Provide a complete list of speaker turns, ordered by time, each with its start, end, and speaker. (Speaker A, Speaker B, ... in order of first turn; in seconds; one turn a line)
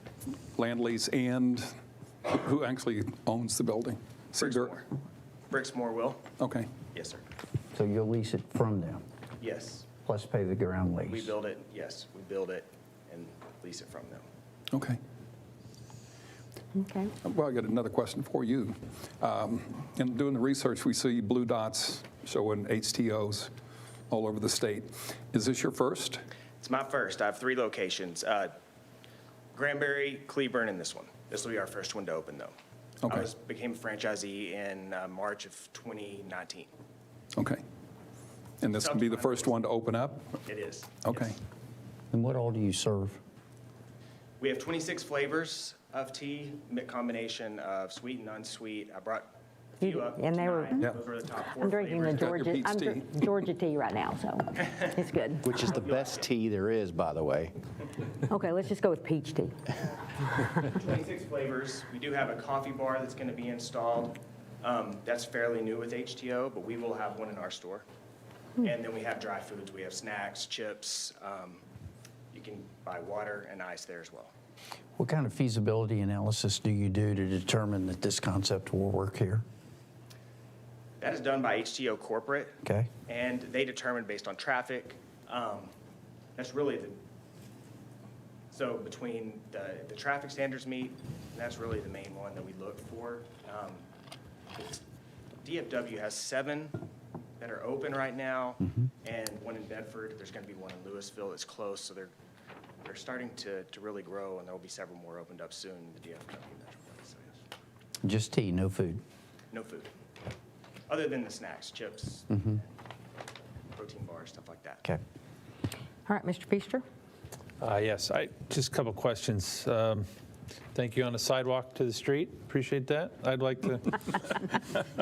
Speaker A: 0.5-4.8
Speaker B: 4.4-4.9
Speaker B: 5.5-6.3
Speaker A: 6.4-6.7
Speaker B: 6.9-7.2
Speaker C: 7.7-9.0
Speaker B: 9.4-9.9
Speaker C: 10.0-11.3
Speaker B: 11.1-14.2
Speaker A: 14.7-15.0
Speaker D: 16.7-17.1
Speaker A: 17.2-23.5
Speaker A: 24.1-26.2
Speaker B: 26.6-28.5
Speaker B: 29.5-32.5
Speaker B: 33.0-36.7
Speaker A: 37.3-37.6
Speaker A: 38.6-40.4
Speaker B: 38.7-39.6
Speaker B: 40.5-41.2
Speaker A: 41.0-41.4
Speaker C: 42.1-43.2
Speaker B: 44.4-52.3
Speaker D: 49.8-50.9
Speaker D: 51.5-55.6
Speaker A: 52.1-53.1
Speaker E: 55.5-57.5
Speaker B: 55.5-56.3
Speaker D: 58.3-59.6
Speaker B: 60.7-67.8
Speaker B: 68.6-71.6
Speaker B: 72.3-74.3
Speaker C: 75.0-79.4
Speaker B: 81.0-82.5
Speaker B: 83.1-85.7
Speaker B: 86.3-87.0
Speaker B: 88.5-93.8
Speaker B: 95.4-96.8
Speaker B: 97.4-102.1
Speaker B: 102.8-107.3
Speaker C: 108.0-109.0
Speaker B: 109.5-109.9
Speaker B: 110.9-112.6
Speaker B: 113.7-114.8
Speaker D: 116.0-116.8
Speaker F: 117.6-120.1
Speaker F: 120.7-124.4